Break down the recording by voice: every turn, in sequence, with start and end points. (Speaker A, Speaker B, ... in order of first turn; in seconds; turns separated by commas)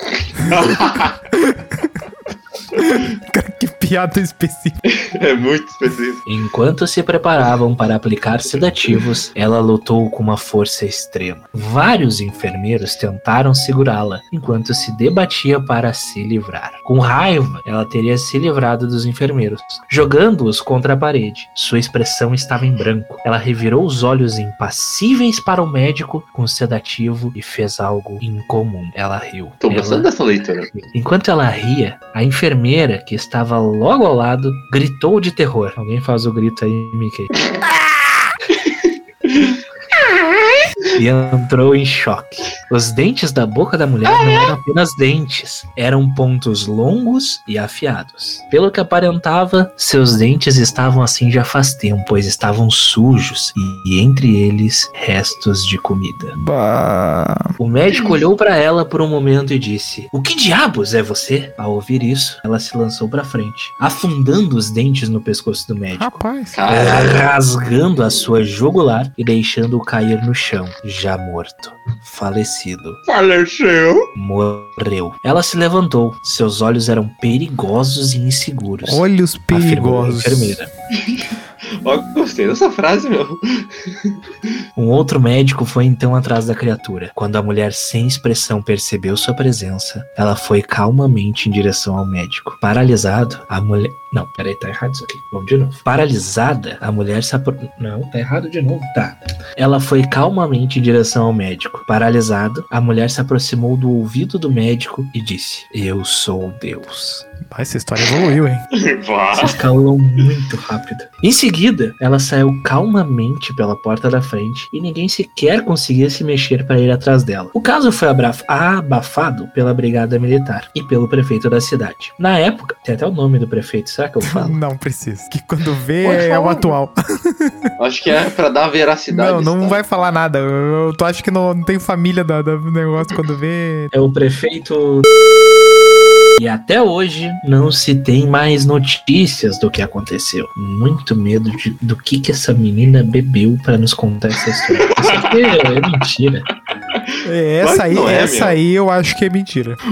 Speaker A: 0.2-1.2, Speaker B: 1.3-2.0, Speaker B: 2.7-4.8, Speaker A: 4.8-6.2, Speaker C: 6.2-30.1, Speaker A: 29.6-30.8, Speaker C: 30.8-37.4, Speaker A: 38.7-40.1, Speaker C: 40.9-56.4, Speaker A: 44.1-44.5, Speaker B: 56.4-57.5, Speaker C: 57.6-73.0, Speaker B: 66.0-66.6, Speaker A: 66.5-67.3, Speaker A: 73.0-74.1, Speaker C: 74.1-80.7, Speaker B: 78.8-80.6, Speaker A: 80.9-84.2, Speaker C: 84.8-107.2, Speaker B: 107.5-108.7, Speaker A: 108.7-109.6, Speaker C: 109.3-124.6, Speaker B: 124.2-127.6, Speaker A: 126.0-126.8, Speaker A: 127.8-129.8, Speaker B: 129.1-133.9, Speaker C: 133.9-135.1, Speaker C: 136.4-146.5, Speaker A: 144.6-145.7, Speaker A: 146.9-148.6, Speaker B: 147.2-149.8